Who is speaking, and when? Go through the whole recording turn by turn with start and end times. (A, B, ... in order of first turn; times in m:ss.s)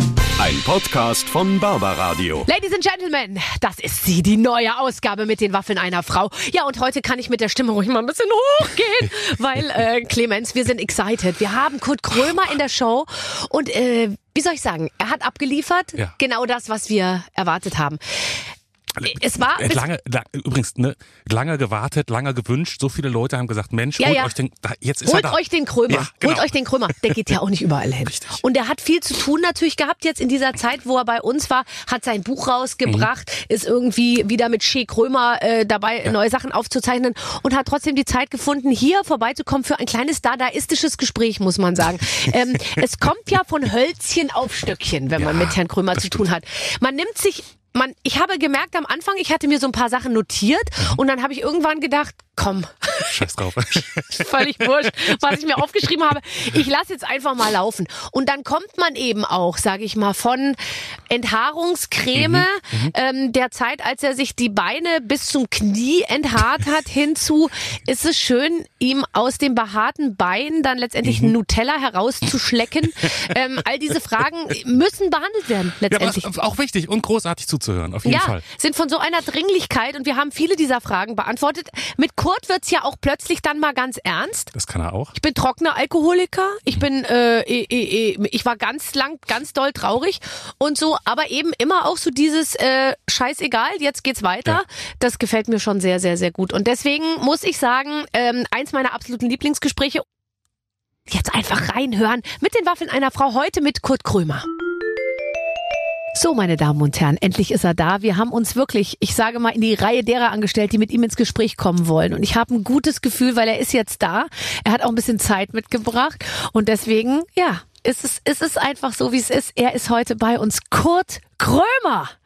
0:00.4-0:02.5 A
0:02.5-0:18.4 B
0:19.0-0:27.2 C
0:19.0-0:19.9 B
0:24.0-0:24.3 B
0:25.0-0:53.2 B
0:28.2-0:28.4 C
0:45.2-0:46.2 C
0:53.1-0:55.4 C
0:54.0-1:16.3 B
1:02.2-1:02.9 C
1:11.1-1:11.3 C
1:15.9-1:18.4 C
1:18.0-1:24.5 B
1:24.5-1:25.1 C
1:25.1-1:40.0 B
1:41.1-1:44.5 B
1:46.1-2:02.1 B